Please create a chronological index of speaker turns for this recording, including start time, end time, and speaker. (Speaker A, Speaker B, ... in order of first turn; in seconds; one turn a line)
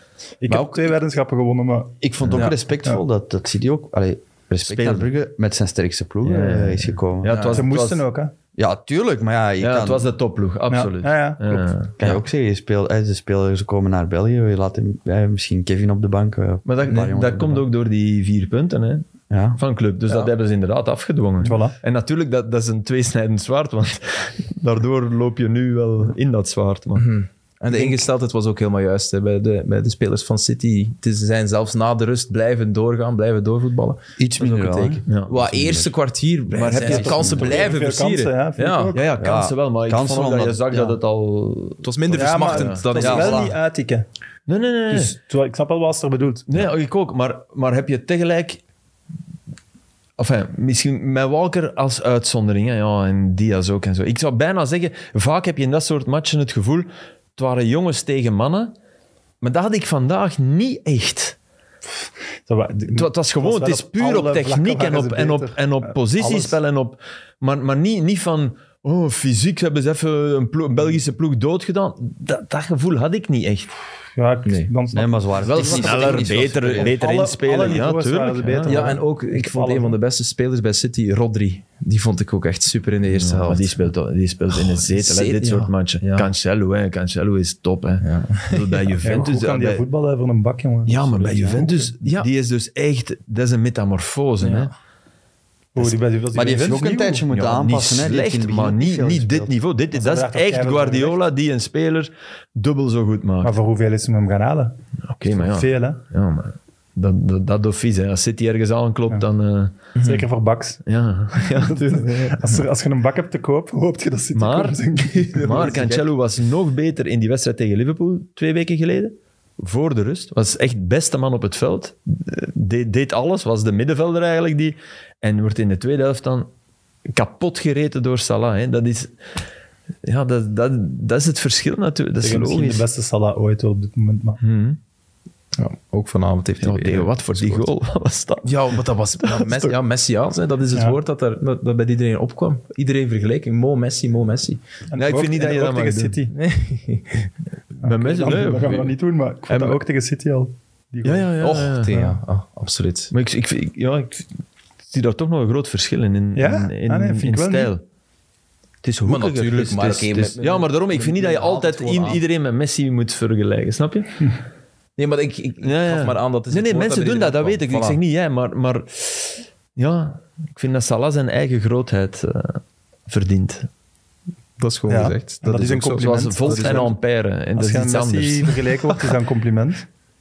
Speaker A: 0.4-1.9
Speaker B: 0.5-0.9
Speaker C: 2.0-7.4
Speaker D: 2.2-2.5
Speaker D: 4.6-5.1
Speaker D: 6.2-8.0
Speaker B: 7.2-7.6
Speaker A: 7.5-8.3
Speaker C: 8.6-10.1
Speaker D: 9.6-12.0
Speaker A: 10.7-11.7
Speaker C: 12.0-17.6
Speaker D: 16.6-27.1
Speaker C: 19.3-19.6
Speaker A: 21.4-21.8
Speaker B: 27.0-38.9
Speaker D: 27.7-28.1
Speaker C: 34.2-35.9
Speaker D: 35.1-35.4
Speaker D: 36.5-37.7
Speaker C: 36.8-37.5
Speaker A: 37.1-39.0
Speaker D: 38.9-43.4
Speaker C: 39.1-41.0
Speaker B: 41.8-43.4
Speaker A: 42.1-44.0
Speaker C: 42.9-43.5
Speaker D: 44.5-45.1
Speaker A: 44.9-46.5
Speaker D: 46.5-48.6
Speaker D: 50.2-58.7
Speaker D: 59.4-61.3
Speaker A: 62.5-66.5
Speaker D: 62.9-73.7
Speaker A: 74.2-75.3
Speaker C: 74.9-77.0
Speaker D: 75.4-79.0
Speaker B: 75.5-76.4
Speaker A: 76.8-80.0
Speaker B: 78.7-83.8
Speaker D: 83.1-89.8
Speaker B: 84.5-86.3
Speaker B: 88.0-88.9
Speaker A: 89.0-91.9
Speaker D: 90.8-94.7
Speaker B: 94.4-94.7
Speaker A: 95.7-97.2
Speaker C: 95.8-99.5
Speaker D: 97.3-103.5
Speaker A: 99.9-101.2
Speaker A: 103.4-106.0
Speaker D: 105.1-109.7
Speaker B: 110.0-110.2
Speaker A: 110.0-110.8
Speaker D: 110.8-112.4
Speaker A: 111.3-115.8
Speaker D: 114.3-126.5
Speaker B: 115.1-116.1
Speaker D: 127.1-129.1
Speaker D: 130.0-132.8
Speaker A: 132.2-134.4
Speaker D: 134.4-134.8
Speaker B: 135.6-137.7
Speaker D: 136.6-139.8
Speaker B: 138.4-144.6
Speaker A: 144.9-146.3
Speaker D: 144.9-146.2
Speaker B: 146.3-147.3
Speaker D: 147.8-148.9
Speaker A: 147.8-151.3
Speaker D: 149.5-149.8
Speaker D: 151.0-152.0
Speaker B: 151.4-153.1
Speaker D: 153.1-154.3
Speaker D: 154.9-157.8
Speaker A: 156.3-157.7
Speaker D: 158.8-164.3
Speaker B: 159.0-162.2
Speaker B: 165.0-168.0
Speaker D: 165.6-173.7
Speaker B: 174.6-176.9
Speaker A: 174.9-176.9
Speaker D: 175.9-178.6
Speaker A: 177.6-179.8